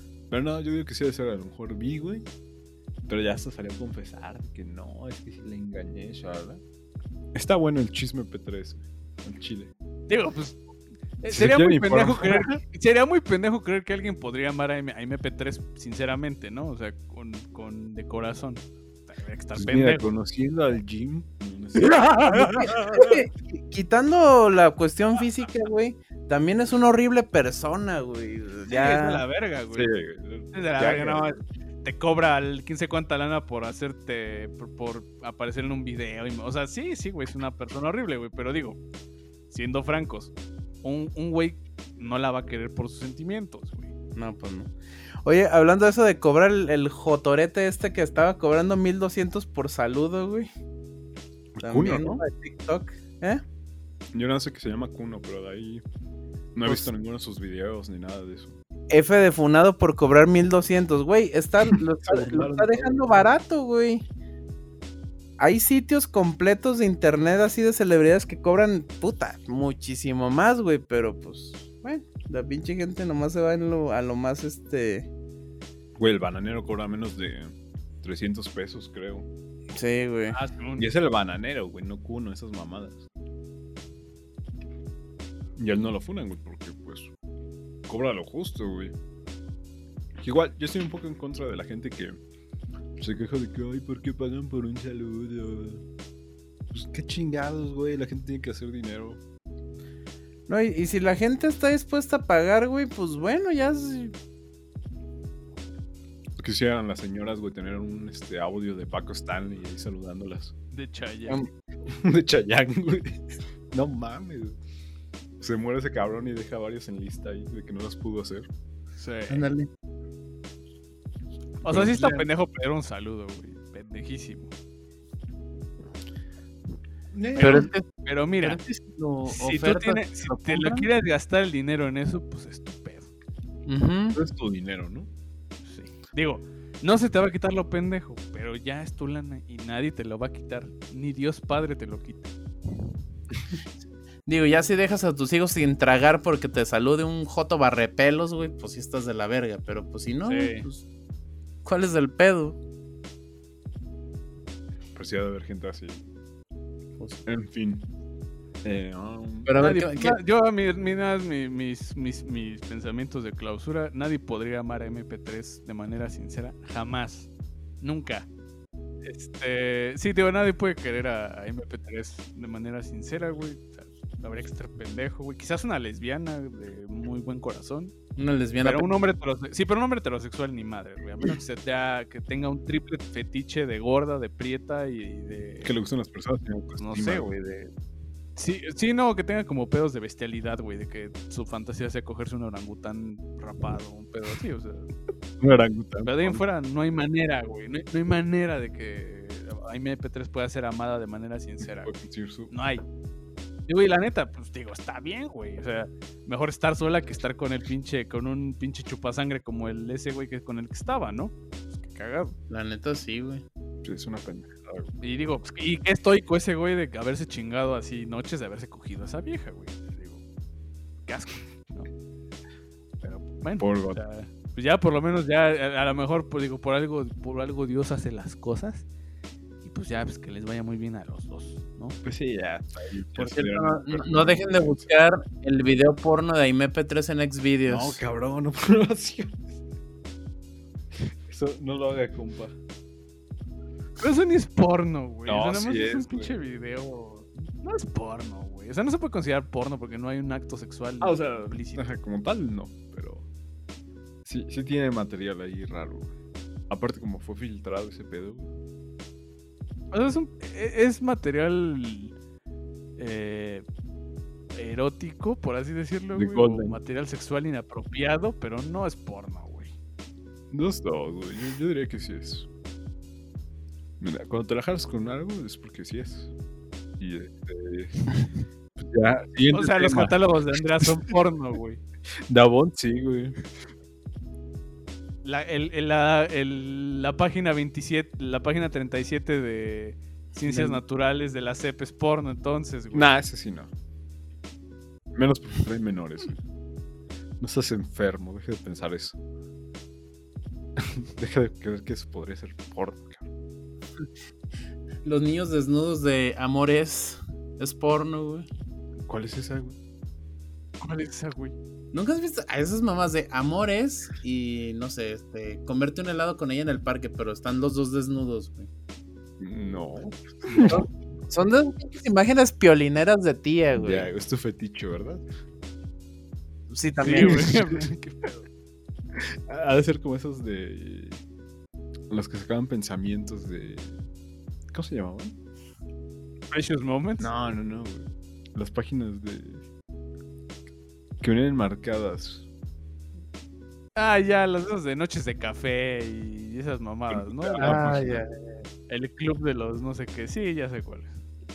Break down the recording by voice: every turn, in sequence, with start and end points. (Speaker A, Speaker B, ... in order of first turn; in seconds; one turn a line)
Speaker A: 0.3-2.3
Speaker A: 3.1-6.6
Speaker A: 7.3-9.7
Speaker B: 10.1-10.6
Speaker B: 11.2-20.1
Speaker A: 11.3-12.6
Speaker A: 19.6-22.4
Speaker B: 21.8-23.2
Speaker C: 22.3-29.2
Speaker B: 28.7-29.9
Speaker A: 29.7-31.3
Speaker B: 30.5-38.8
Speaker B: 39.5-40.3
Speaker B: 40.8-43.9
Speaker C: 44.2-44.7
Speaker C: 45.2-50.5
Speaker A: 51.5-52.2
Speaker C: 51.6-53.4
Speaker A: 54.1-55.8
Speaker A: 56.5-58.6
Speaker C: 56.6-56.9
Speaker C: 58.9-64.1
Speaker A: 62.0-63.3
Speaker C: 65.4-75.1
Speaker A: 76.0-79.3
Speaker C: 79.7-80.4
Speaker B: 80.3-80.9
Speaker A: 80.8-83.0
Speaker A: 85.6-87.1
Speaker A: 87.9-89.0
Speaker A: 90.2-92.2
Speaker A: 93.0-95.8
Speaker A: 96.7-99.2
Speaker C: 100.5-104.1
Speaker A: 106.4-110.5
Speaker B: 110.7-111.4
Speaker A: 111.9-114.6
Speaker A: 115.4-118.5
Speaker B: 119.0-119.5
Speaker C: 119.3-119.7
Speaker A: 121.6-122.2
Speaker B: 121.6-124.5
Speaker A: 127.1-127.7
Speaker B: 127.4-128.6
Speaker C: 127.4-127.9
Speaker C: 128.4-130.9
Speaker B: 129.3-133.1
Speaker C: 133.7-134.2
Speaker A: 134.1-135.1
Speaker B: 135.7-142.3
Speaker C: 144.3-150.8
Speaker B: 150.3-150.7
Speaker C: 151.7-152.6
Speaker A: 154.9-156.1
Speaker C: 157.0-157.2
Speaker A: 157.2-157.9
Speaker A: 158.6-159.5
Speaker C: 159.5-160.2
Speaker B: 159.6-167.3
Speaker B: 167.8-168.3
Speaker B: 169.0-177.9
Speaker C: 178.2-178.9
Speaker B: 178.6-185.7
Speaker A: 185.6-187.3
Speaker B: 186.8-187.6
Speaker B: 188.4-194.9
Speaker A: 195.4-196.4
Speaker B: 196.0-201.9
Speaker A: 201.7-202.5
Speaker B: 202.5-202.8
Speaker B: 203.7-212.3
Speaker C: 212.5-213.4
Speaker A: 213.8-214.9
Speaker B: 215.0-220.2
Speaker B: 221.1-221.9
Speaker B: 223.0-228.8
Speaker A: 223.6-224.0
Speaker B: 229.6-232.0
Speaker A: 232.0-234.9
Speaker C: 233.2-238.0
Speaker A: 237.7-239.4
Speaker A: 241.3-242.6
Speaker B: 244.0-251.9
Speaker A: 245.3-246.3
Speaker A: 251.0-253.3
Speaker A: 254.3-256.1
Speaker A: 256.7-258.5
Speaker B: 259.9-262.1
Speaker B: 263.0-263.6
Speaker B: 264.5-269.7
Speaker A: 266.1-266.8
Speaker A: 270.5-272.5
Speaker A: 274.0-276.3
Speaker A: 277.0-277.9
Speaker A: 278.8-280.2
Speaker B: 279.5-281.8
Speaker A: 282.3-283.4
Speaker B: 285.2-293.1
Speaker A: 290.5-290.8
Speaker A: 292.9-293.7
Speaker A: 295.2-296.4
Speaker A: 297.4-299.2
Speaker A: 300.8-303.2
Speaker C: 305.0-308.5
Speaker A: 309.1-309.8
Speaker B: 310.8-311.6
Speaker C: 311.9-318.7
Speaker A: 319.4-320.8
Speaker C: 320.7-324.1
Speaker A: 323.7-325.2
Speaker C: 326.7-327.6
Speaker B: 327.0-328.4
Speaker A: 327.1-327.8
Speaker A: 329.2-331.2
Speaker A: 332.1-334.0
Speaker A: 334.7-335.4
Speaker B: 336.5-337.3
Speaker A: 337.2-339.6
Speaker A: 341.2-342.4
Speaker B: 344.0-348.1
Speaker A: 347.1-348.2
Speaker C: 347.6-348.3
Speaker B: 348.9-351.1